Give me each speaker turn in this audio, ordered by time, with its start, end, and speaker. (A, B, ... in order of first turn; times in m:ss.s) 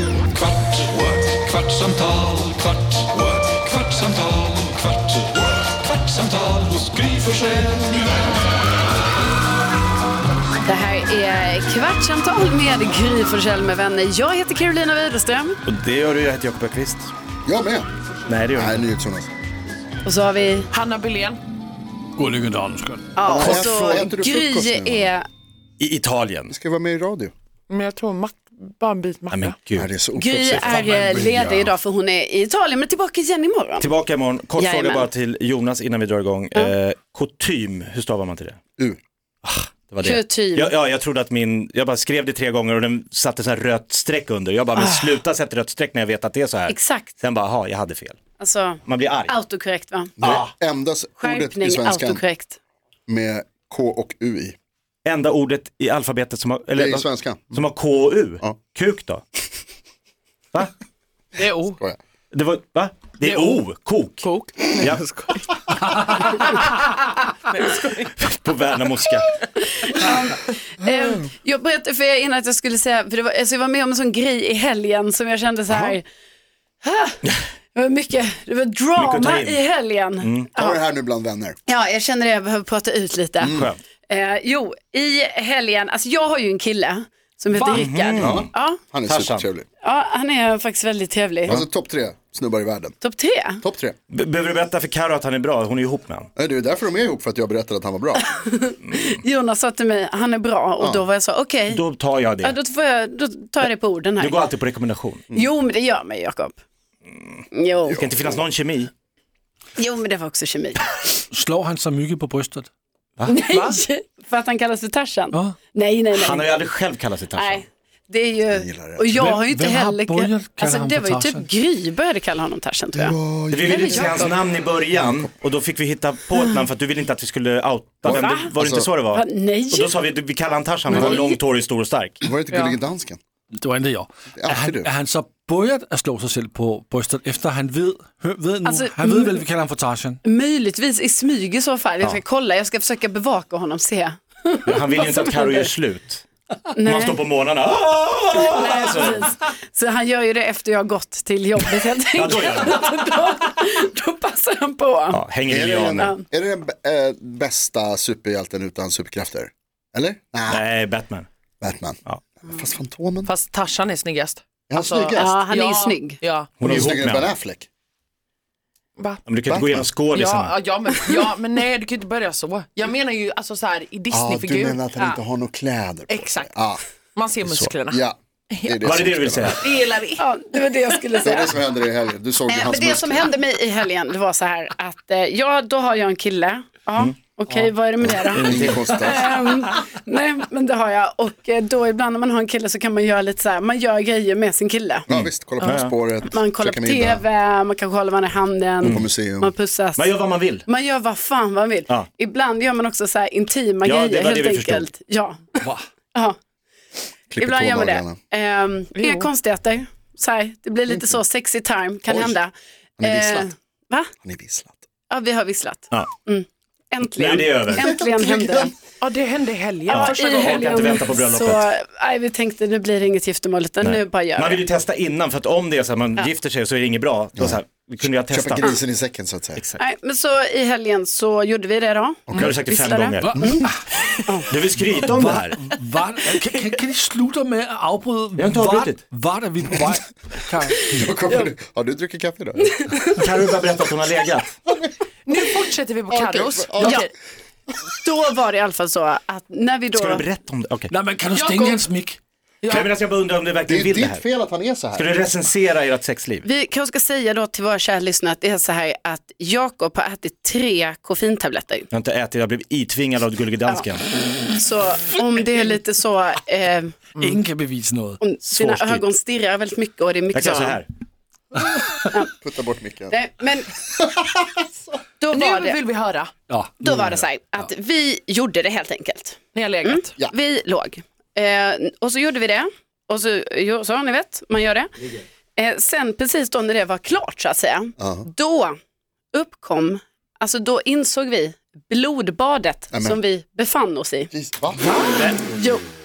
0:00.4-0:04.9 A
0:06.1-0:07.6 A
0:10.6-0:15.6 B
0:15.6-0:17.1 C
0:17.4-0:17.9 D
0:18.3-0:18.9 C
0:18.5-0:19.3 D
0:20.0-0:20.7 B
0:20.7-0:21.4 E
0:22.2-0:23.0 F
0:23.2-0:25.3 B
0:23.2-0:25.1 D
0:25.8-0:26.5 C
0:26.5-0:27.3 D
0:27.7-0:29.5 E
0:29.3-0:29.9 C
0:29.8-0:31.7 D
0:30.2-0:33.9 B
0:30.5-0:31.6 C
0:33.8-0:38.6 C
0:34.6-0:35.1 B
0:39.4-0:48.2 C
0:40.0-0:40.7 B
0:44.8-0:45.2 B
0:46.7-0:47.1 B
0:48.4-0:50.1 B
0:48.8-0:49.3 C
0:50.2-0:52.2 D
0:50.2-0:50.5 C
0:51.2-0:52.6 B
0:53.1-0:54.6 D
0:55.0-0:59.2 C
0:56.8-0:57.6 D
1:01.4-1:01.8 E
1:02.3-1:04.3 C
1:03.2-1:03.7 E
1:04.2-1:06.8 E
1:04.8-1:05.1 C
1:05.8-1:06.1 F
1:07.5-1:08.3 E
1:08.2-1:09.4 C
1:09.7-1:16.0 B
1:16.8-1:17.2 B
1:17.7-1:20.8 B
1:19.0-1:19.6 C
1:20.2-1:20.5 C
1:20.6-1:21.6 D
1:21.6-1:28.8 B
1:23.4-1:23.7 D
1:23.4-1:23.8 C
1:27.5-1:27.9 E
1:27.7-1:28.5 C
1:28.2-1:29.6 D
1:29.1-1:29.5 C
1:29.8-1:31.6 B
1:31.4-1:33.0 D
1:33.0-1:33.6 B
1:33.6-1:34.0 D
1:34.1-1:36.3 C
1:36.4-1:38.2 D
1:38.2-1:41.8 B
1:38.8-1:39.2 C
1:41.7-1:42.5 C
1:42.4-1:44.4 B
1:44.2-1:45.2 C
1:45.3-1:46.6 B
1:47.5-1:48.0 B
1:47.9-1:48.4 D
1:48.0-1:48.9 C
1:49.8-1:50.8 B
1:51.3-1:52.7 F
1:53.3-1:56.5 B
1:53.5-1:53.8 E
1:56.1-1:57.6 C
1:57.3-2:03.2 B
1:58.5-1:59.2 D
1:59.1-2:01.4 F
2:02.9-2:04.3 D
2:03.5-2:12.2 C
2:03.7-2:04.4 B
2:05.0-2:05.3 D
2:08.0-2:08.9 D
2:08.0-2:08.5 B
2:09.1-2:09.9 B
2:10.9-2:11.4 B
2:12.2-2:13.2 D
2:12.5-2:12.8 E
2:13.6-2:20.2 F
2:14.4-2:14.9 D
2:18.6-2:19.4 B
2:20.2-2:25.7 B
2:24.6-2:26.2 C
2:26.7-2:27.2 B
2:26.8-2:29.2 C
2:28.4-2:36.2 B
2:32.1-2:32.8 C
2:35.1-2:36.1 C
2:35.5-2:40.6 D
2:40.5-2:41.3 C
2:41.6-2:43.3 D
2:43.2-2:46.5 E
2:44.7-2:45.4 D
2:45.1-2:46.2 B
2:46.6-2:47.3 C
2:46.6-2:47.7 D
2:49.2-2:50.5 C
2:49.5-2:49.9 D
2:50.1-2:54.8 E
2:54.1-2:56.8 D
2:56.1-2:56.5 E
2:57.1-2:58.8 E
2:57.9-2:59.6 D
2:58.8-2:59.6 C
2:59.4-3:01.0 E
3:00.2-3:01.5 B
3:01.2-3:03.3 D
3:02.5-3:15.1 B
3:08.0-3:09.3 D
3:08.2-3:08.9 C
3:15.1-3:17.2 D
3:15.1-3:15.9 C
3:16.3-3:20.1 B
3:18.8-3:19.1 C
3:18.8-3:19.5 D
3:20.0-3:20.6 C
3:20.6-3:25.4 B
3:23.8-3:24.9 C
3:27.3-3:28.2 D
3:27.4-3:34.1 B
3:28.9-3:29.3 E
3:32.0-3:32.4 D
3:33.0-3:33.5 D
3:34.2-3:34.8 D
3:35.1-3:38.7 B
3:37.1-3:37.8 C
3:37.8-3:38.7 D
3:39.0-3:40.9 E
3:39.9-3:44.6 B
3:39.9-3:41.7 C
3:43.8-3:48.8 C
3:47.4-3:49.6 D
3:49.8-3:53.7 B
3:52.3-3:52.5 D
3:52.3-3:53.4 C
3:53.2-3:53.8 F
3:54.5-3:55.6 C
3:55.0-4:00.9 F
3:56.4-3:56.7 E
3:58.4-3:59.0 C
4:00.8-4:02.9 D
4:02.9-4:03.2 B
4:03.2-4:04.6 C
4:04.6-4:04.9 D
4:05.2-4:07.1 E
4:06.1-4:07.0 D
4:06.8-4:07.1 B
4:07.9-4:10.2 B
4:09.9-4:10.9 C
4:10.9-4:12.2 F
4:11.3-4:11.9 E
4:12.6-4:12.9 E
4:12.7-4:14.2 C
4:13.7-4:15.1 D
4:14.9-4:16.4 C
4:16.4-4:21.9 B
4:21.9-4:24.0 C
4:24.5-4:27.0 B
4:27.2-4:28.6 F
4:28.2-4:30.8 B
4:28.5-4:29.0 C
4:30.3-4:30.8 C
4:32.4-4:33.2 D
4:33.1-4:33.8 B
4:34.0-4:34.6 D
4:35.2-4:35.8 B
4:35.3-4:36.3 E
4:36.5-4:37.0 F
4:36.8-4:44.9 B
4:39.5-4:40.1 E
4:45.6-4:48.8 B
4:48.0-4:48.3 D
4:49.3-4:54.3 B
4:52.9-4:53.2 D
4:54.3-4:55.0 D
4:54.8-4:55.3 E
4:55.2-4:55.8 B